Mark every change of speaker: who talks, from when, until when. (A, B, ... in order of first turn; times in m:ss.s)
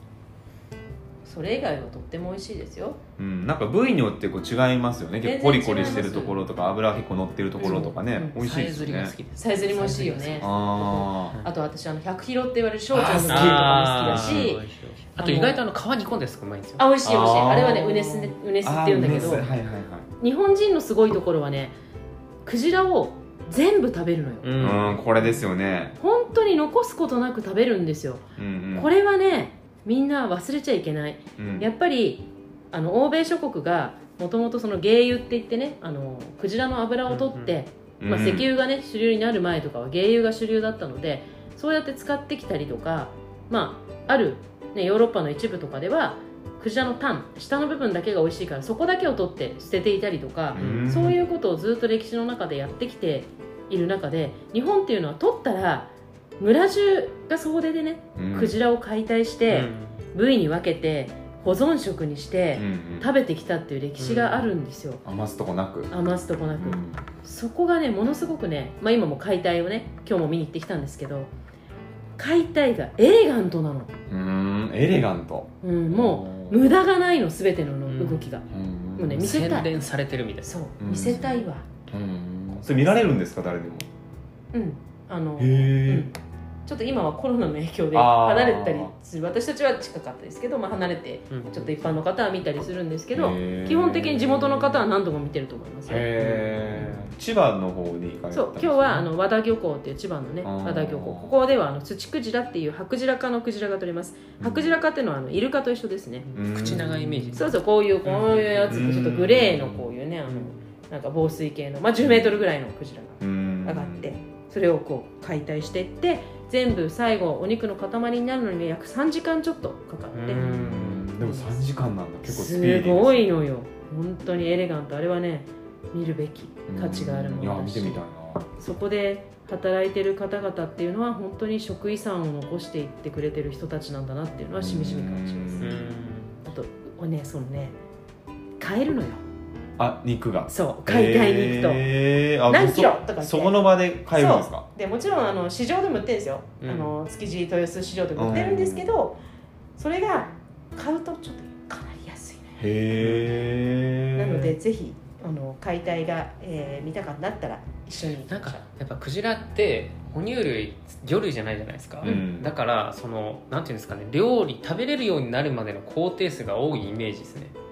0:01.2-0:03.0 A
0:03.2-0:09.2 B
0:05.2-0:06.4 A
0:05.8-0:06.4 C
0:07.6-0:08.4 A
0:07.6-0:10.5 C
0:09.4-0:14.6 A
0:10.4-0:11.4 B
0:12.9-0:14.5 B
0:13.0-0:16.8 C
0:15.2-0:15.6 A
0:16.8-0:19.5 A
0:17.0-0:20.1 B
0:19.0-0:19.4 C
0:20.2-0:21.7 A
0:22.4-0:25.3 A
0:24.4-0:25.0 C
0:24.6-0:25.9 B
0:26.0-1:05.0 A
0:28.4-0:28.9 B
0:31.4-0:31.7 B
0:37.1-0:37.6 C
0:38.0-0:38.5 B
0:50.5-0:51.2 B
0:50.6-0:50.9 C
0:58.2-0:58.6 B
0:59.5-1:00.0 C
1:02.5-1:03.1 B
1:04.0-1:04.5 C
1:05.0-1:05.9 B
1:05.9-1:11.3 A
1:06.5-1:07.0 B
1:12.2-1:13.9 A
1:14.1-1:16.7 B
1:15.6-1:18.4 A
1:17.9-1:18.3 C
1:18.5-1:19.4 B
1:19.0-1:19.7 A
1:19.1-1:20.5 C
1:20.4-1:21.6 A
1:20.8-1:23.9 B
1:24.5-1:26.1 A
1:25.4-1:26.1 B
1:26.6-1:36.1 A
1:27.9-1:28.9 B
1:31.3-1:32.0 C
1:33.1-1:34.8 B
1:35.9-1:39.0 B
1:36.2-1:36.9 C
1:38.3-1:46.3 A
1:40.4-1:41.3 B
1:44.4-1:44.8 B
1:46.3-1:48.9 C
1:46.3-1:47.3 B
1:47.3-2:00.5 A
1:48.7-1:49.9 B
1:50.3-1:50.6 C
1:52.0-1:52.4 B
1:53.2-1:54.2 B
2:00.1-2:01.1 C
2:00.3-2:03.3 B
2:01.2-2:01.6 A
2:02.2-2:08.0 A
2:06.7-2:08.4 B
2:08.5-2:15.8 A
2:14.5-2:16.0 B
2:15.6-2:16.4 C
2:16.4-2:17.7 A
2:18.6-2:19.2 A
2:19.8-2:24.6 B
2:20.5-2:21.8 A
2:22.5-2:29.2 A
2:26.6-2:26.9 C
2:28.2-2:28.9 B
2:29.8-2:32.6 A
2:32.6-2:34.6 B
2:33.0-2:33.3 C
2:34.1-2:38.6 A
2:38.3-2:47.5 C
2:42.0-2:42.5 B